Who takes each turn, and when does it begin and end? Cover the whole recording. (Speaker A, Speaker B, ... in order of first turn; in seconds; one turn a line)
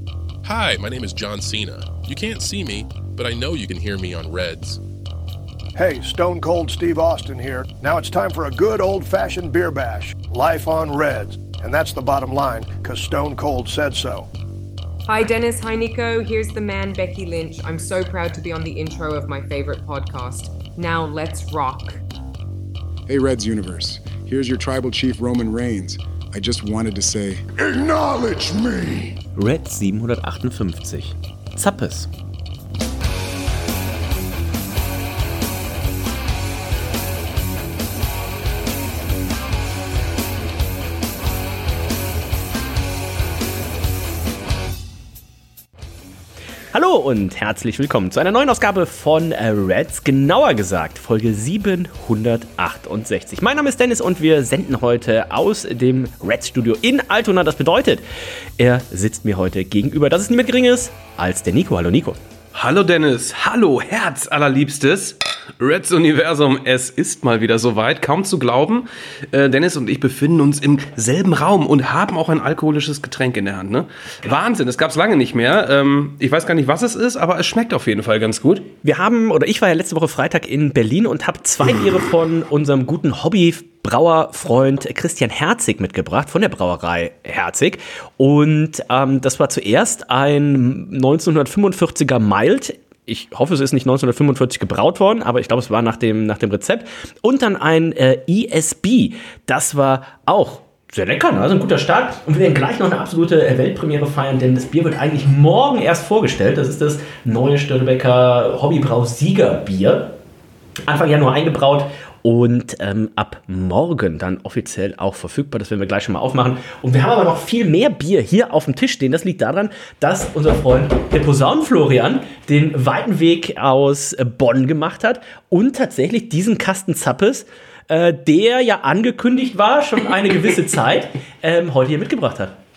Speaker A: 0.4-4.8
Speaker B: 5.8-14.3
Speaker C: 15.1-22.0
Speaker D: 23.1-29.2
Speaker E: 29.4-32.1
Speaker E: 46.7-58.0
Speaker E: 58.6-62.2
Speaker F: 62.5-78.7
Speaker E: 78.8-110.2
Speaker E: 110.8-132.6